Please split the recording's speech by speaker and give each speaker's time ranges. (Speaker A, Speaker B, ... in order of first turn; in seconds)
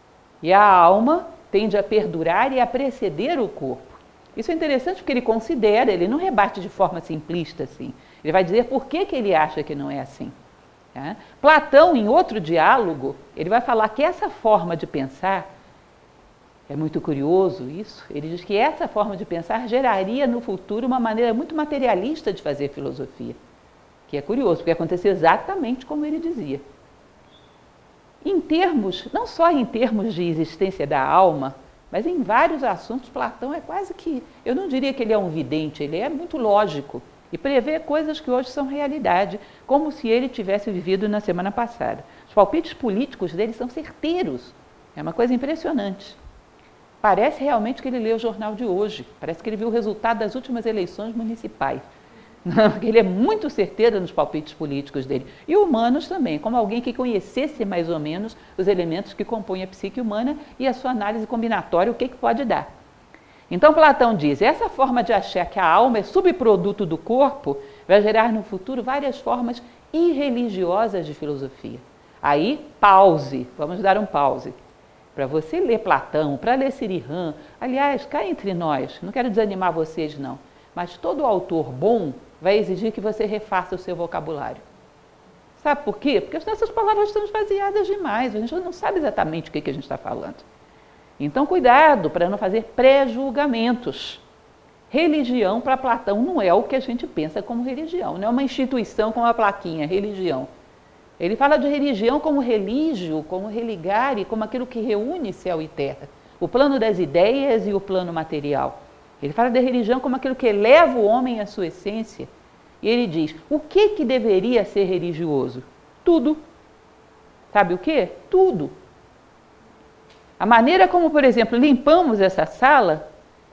Speaker A: 0.4-10.3, 10.9-15.4, 16.7-23.4, 24.1-26.6, 28.2-46.2, 47.0-51.8, 52.4-62.7, 63.5-74.5, 75.1-84.6, 85.6-90.4, 91.2-94.2, 94.9-100.5, 101.2-112.3, 112.8-116.4, 117.5-118.7, 120.4-123.0